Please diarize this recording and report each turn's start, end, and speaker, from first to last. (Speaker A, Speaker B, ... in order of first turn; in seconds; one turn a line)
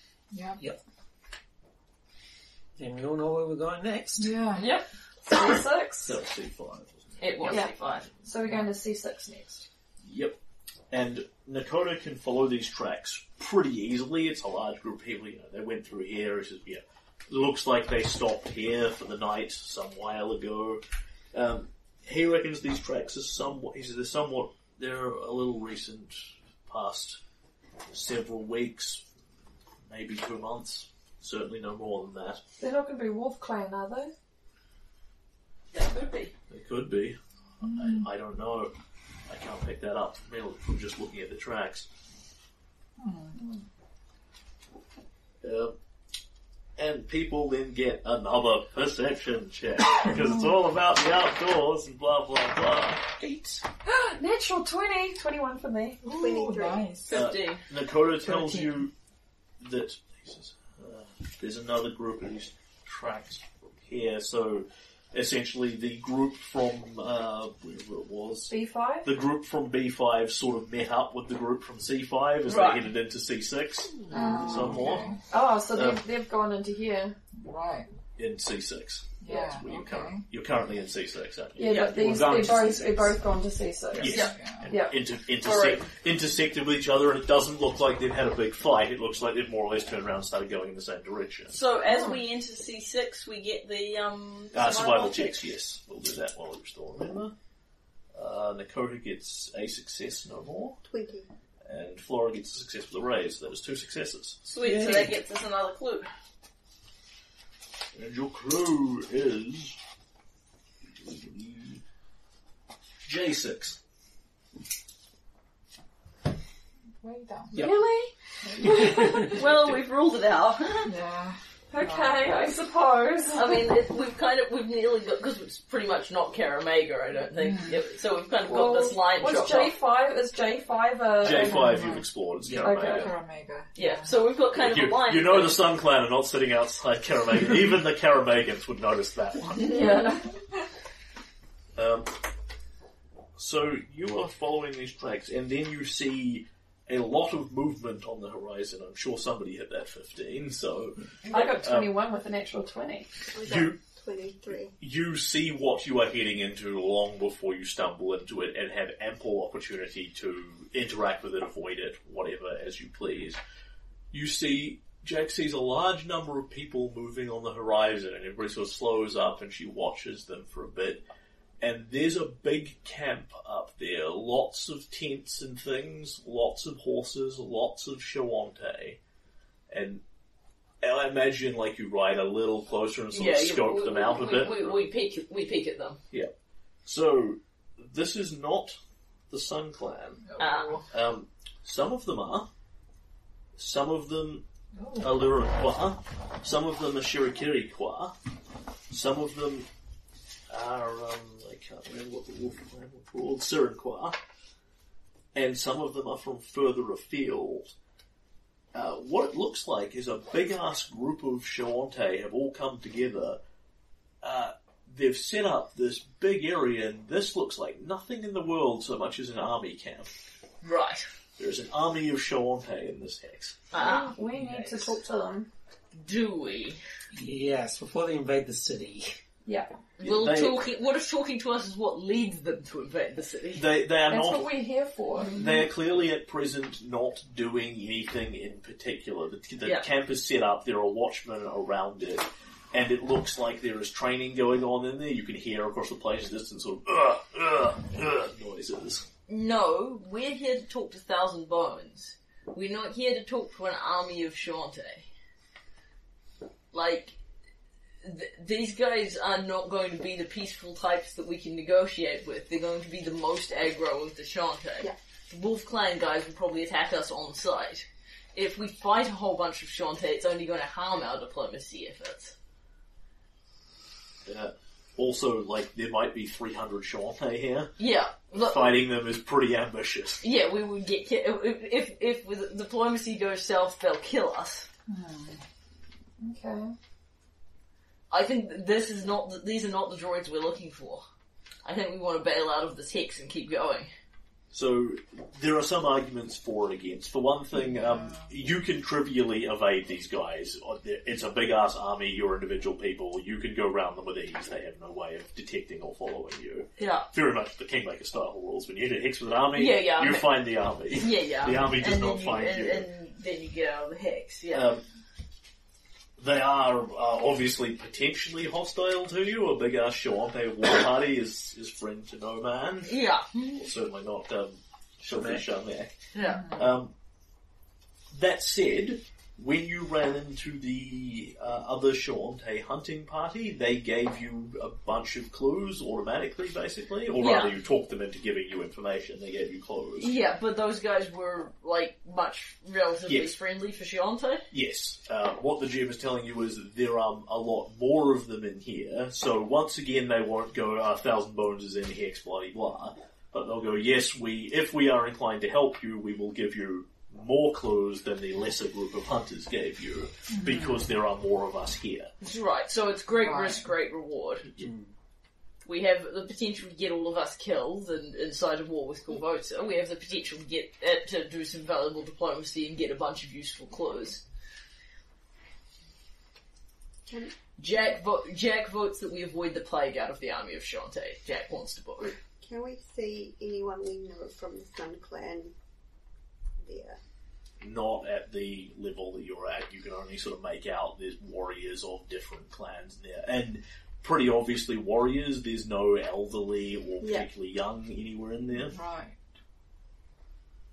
Speaker A: 0.3-0.6
Speaker B: 2.8-4.4
Speaker A: 4.2-4.7
Speaker C: 4.6-4.8
Speaker D: 4.6-6.1
Speaker E: 6.0-8.1
Speaker C: 7.2-8.1
Speaker D: 7.4-9.7
Speaker E: 10.0-10.4
Speaker E: 10.9-20.8
Speaker E: 21.3-27.2
Speaker E: 27.9-29.0
Speaker E: 29.9-32.4
Speaker D: 32.6-34.1
Speaker C: 35.7-36.3
Speaker E: 36.5-38.7
Speaker A: 37.6-38.0
Speaker E: 39.3-41.9
Speaker A: 43.0-43.4
Speaker E: 45.4-45.7
Speaker E: 46.8-53.2
Speaker B: 53.2-53.6
Speaker D: 53.9-56.0
Speaker A: 56.0-57.2
Speaker F: 56.0-56.9
Speaker C: 57.1-57.6
Speaker E: 57.1-58.9
Speaker A: 58.2-58.8
Speaker E: 59.6-75.2
Speaker D: 68.5-69.1
Speaker C: 72.5-72.9
Speaker A: 74.1-75.2
Speaker D: 74.1-77.2
Speaker E: 75.7-76.0
Speaker A: 77.3-77.9
Speaker E: 78.2-82.2
Speaker A: 79.2-80.3
Speaker D: 81.5-85.0
Speaker B: 81.8-83.2
Speaker E: 84.0-91.6
Speaker C: 84.0-84.3
Speaker A: 84.1-84.7
Speaker C: 85.4-85.8
Speaker C: 91.5-95.4
Speaker D: 91.9-92.2
Speaker E: 94.5-97.3
Speaker E: 98.1-100.8
Speaker F: 100.8-101.3
Speaker E: 101.6-104.5
Speaker C: 104.5-106.1
Speaker B: 104.6-105.1
Speaker E: 107.9-109.8
Speaker E: 110.9-111.8
Speaker E: 113.0-113.8
Speaker A: 117.0-117.7
Speaker D: 117.5-119.3
Speaker A: 118.4-118.7
Speaker B: 118.8-119.3
Speaker C: 119.1-120.9
Speaker A: 120.8-122.2
Speaker D: 121.7-123.6
Speaker C: 123.3-129.8
Speaker A: 127.3-127.8
Speaker D: 128.4-132.0
Speaker E: 131.2-133.1
Speaker A: 131.3-132.0
Speaker B: 132.4-132.8
Speaker D: 132.6-133.1
Speaker A: 132.8-134.1
Speaker C: 133.7-135.6
Speaker E: 134.5-139.8
Speaker D: 139.7-140.2
Speaker C: 139.7-139.9
Speaker E: 141.8-142.1
Speaker E: 143.3-151.9
Speaker D: 151.3-153.1
Speaker F: 153.3-154.7
Speaker E: 153.4-153.8
Speaker E: 154.8-163.4
Speaker E: 164.1-171.0
Speaker E: 171.6-179.0
Speaker E: 179.7-180.0
Speaker E: 180.8-184.8
Speaker C: 183.1-186.0
Speaker E: 186.8-188.8
Speaker E: 189.3-190.3
Speaker A: 190.2-190.9
Speaker C: 190.4-190.8
Speaker E: 190.9-192.5
Speaker E: 193.6-194.4
Speaker A: 194.8-195.1
Speaker E: 195.0-198.1
Speaker E: 198.9-199.7
Speaker E: 200.5-204.2
Speaker E: 205.3-207.7
Speaker E: 208.7-213.4
Speaker E: 214.2-220.1
Speaker C: 220.6-221.0
Speaker E: 221.4-223.6
Speaker C: 223.7-224.1
Speaker D: 223.8-225.5
Speaker B: 224.3-224.7
Speaker C: 225.9-226.8
Speaker B: 227.1-229.2
Speaker D: 229.4-229.7
Speaker C: 230.0-233.6
Speaker E: 230.0-230.6
Speaker E: 233.5-234.5
Speaker D: 234.1-235.4
Speaker E: 235.3-249.0
Speaker C: 239.6-239.9
Speaker C: 249.3-255.1
Speaker C: 256.7-257.1
Speaker C: 258.0-272.3
Speaker E: 274.2-277.7
Speaker C: 277.8-278.8
Speaker E: 278.3-280.2
Speaker C: 280.2-284.7
Speaker A: 284.9-285.4
Speaker D: 286.2-286.7
Speaker C: 288.1-291.0
Speaker C: 291.6-293.9
Speaker E: 294.5-312.9
Speaker A: 297.6-298.2
Speaker C: 306.8-307.1
Speaker C: 309.5-314.7
Speaker E: 314.5-314.8
Speaker E: 316.2-323.0
Speaker C: 322.9-323.7
Speaker E: 323.6-326.9
Speaker B: 325.0-325.4
Speaker C: 326.1-326.5
Speaker A: 326.2-326.6
Speaker E: 328.1-340.1
Speaker C: 337.1-337.5
Speaker C: 340.0-344.5
Speaker E: 343.1-343.3
Speaker E: 344.5-362.1
Speaker A: 360.3-360.8
Speaker C: 362.2-364.5
Speaker A: 363.1-363.6
Speaker B: 364.6-364.9
Speaker C: 365.6-374.2
Speaker F: 377.1-377.3
Speaker C: 377.6-382.1
Speaker F: 382.0-385.5
Speaker F: 386.6-387.0
Speaker E: 387.6-398.8
Speaker F: 397.0-397.3
Speaker A: 398.6-399.2